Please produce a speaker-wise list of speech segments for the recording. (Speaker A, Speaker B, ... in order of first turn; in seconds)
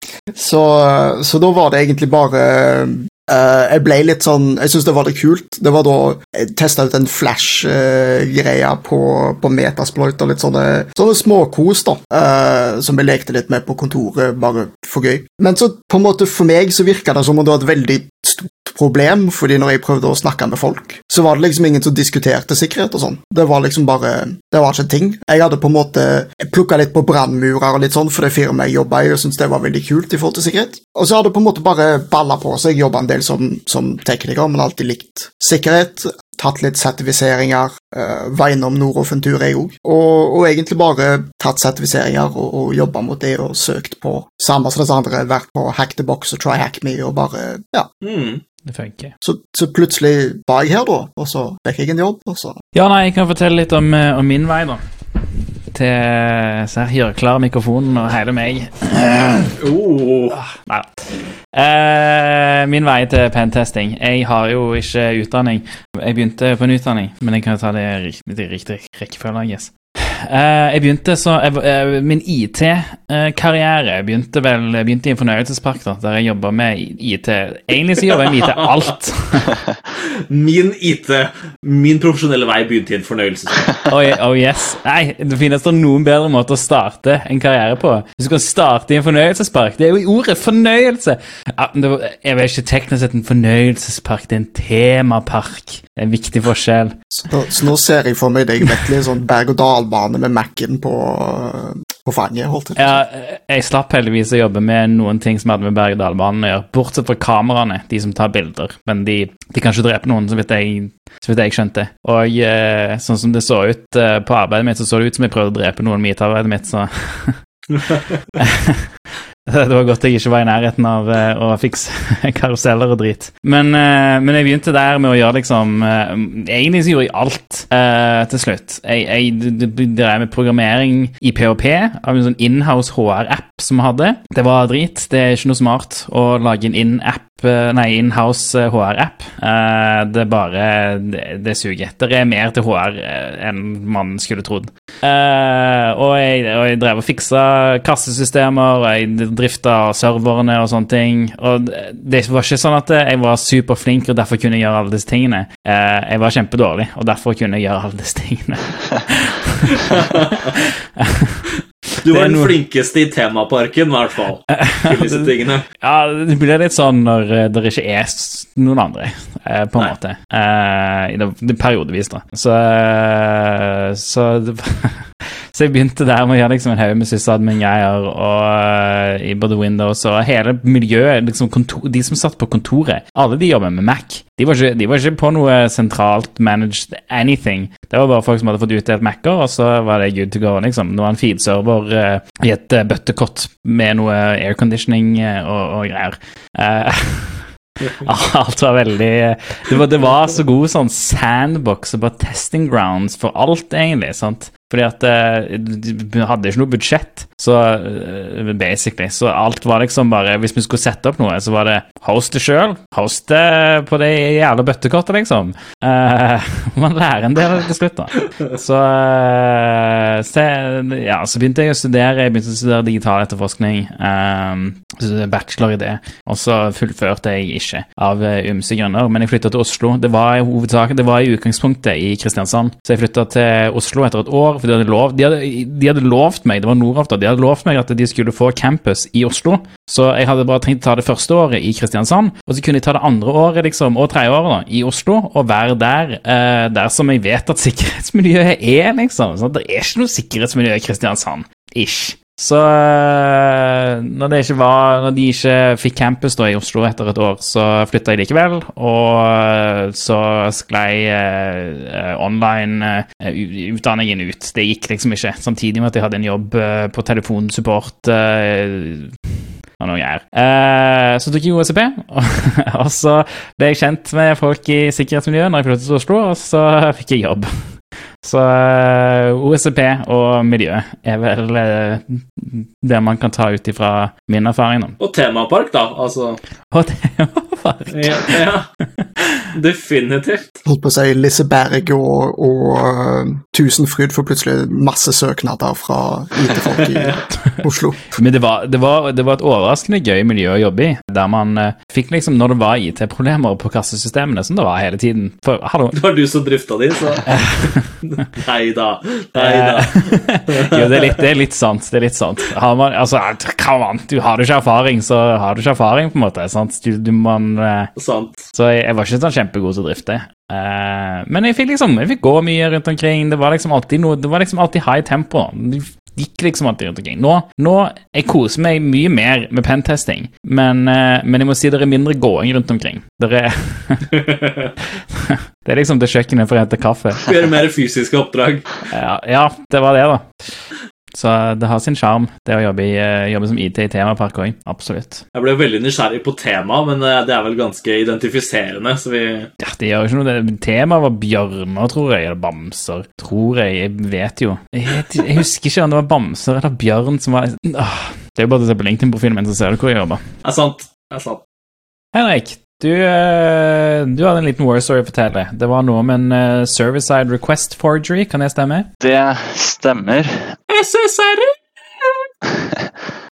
Speaker A: 0.3-47.9, 49.2-52.6, 97.2-103.0, 290.6-298.2
Speaker B: 48.0-48.4, 59.6-60.4, 80.0-83.6, 159.8-160.6, 162.0-165.7, 285.0-286.4, 287.9-288.7, 289.5-290.6, 305.9-311.2, 318.0-318.5, 334.1-334.7, 337.2-338.6, 345.3-349.5, 360.4-361.4, 370.7-372.2
Speaker C: 48.6-49.1, 52.7-54.8, 55.7-59.5, 60.3-79.5, 83.9-97.0, 102.8-117.4, 118.4-118.8, 119.5-159.9, 160.6-161.4, 162.1-162.5, 164.5-269.1, 269.8-277.5, 278.2-285.0, 286.7-288.4, 298.1-306.0, 307.2-307.9, 309.4-317.9, 318.5-334.1, 335.1-337.3, 338.9-340.3, 341.1-345.2, 349.6-360.2, 362.1-368.9
Speaker D: 369.0-370.6, 372.5-372.9